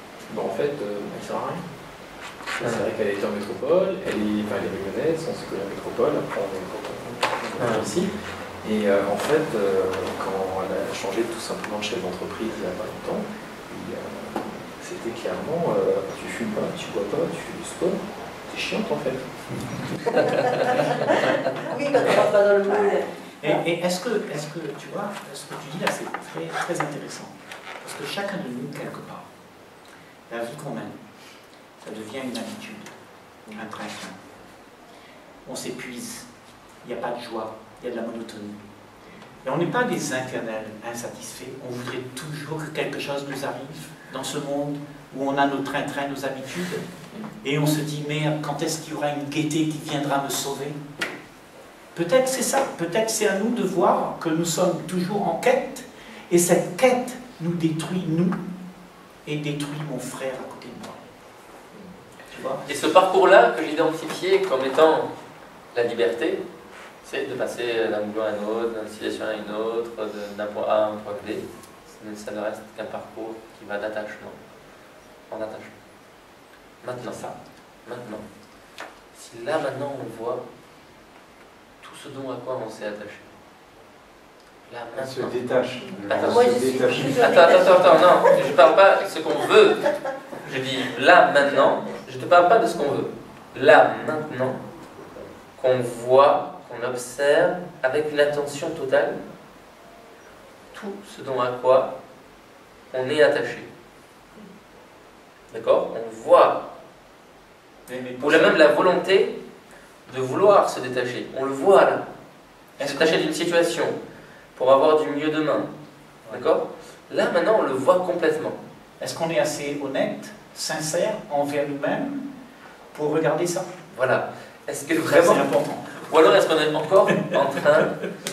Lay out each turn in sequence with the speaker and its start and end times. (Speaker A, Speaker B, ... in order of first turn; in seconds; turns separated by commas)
Speaker A: 0.3-1.6, Speaker A: 2.5-8.1, Speaker B: 7.6-8.0, Speaker A: 8.6-19.2, Speaker C: 20.5-23.1, Speaker D: 23.4-29.3, Speaker D: 30.3-31.0, Speaker D: 31.8-32.9, Speaker D: 33.5-34.1, Speaker D: 35.4-36.3, Speaker D: 36.8-38.6, Speaker D: 39.4-46.8, Speaker D: 47.4-50.8, Speaker D: 51.9-58.4, Speaker D: 59.2-61.0, Speaker D: 62.3-62.6, Speaker B: 62.6-65.1, Speaker B: 65.7-66.4, Speaker B: 67.0-74.3, Speaker B: 75.3-75.7, Speaker B: 76.8-77.2, Speaker D: 77.1-77.3, Speaker B: 77.8-78.2, Speaker B: 79.1-80.4, Speaker B: 81.8-83.3, Speaker B: 84.7-85.4, Speaker E: 84.9-87.4, Speaker B: 86.1-89.9, Speaker C: 86.1-88.2, Speaker B: 90.4-94.6, Speaker B: 95.6-99.2, Speaker B: 100.7-102.0, Speaker B: 102.9-103.7, Speaker B: 105.5-106.7, Speaker D: 107.9-108.6, Speaker B: 108.2-109.4, Speaker B: 110.1-112.1, Speaker B: 112.8-114.0, Speaker D: 112.8-113.3, Speaker B: 114.5-115.7, Speaker B: 116.3-118.6, Speaker D: 119.0-122.2, Speaker D: 122.9-123.7, Speaker B: 123.9-128.0, Speaker D: 125.0-125.9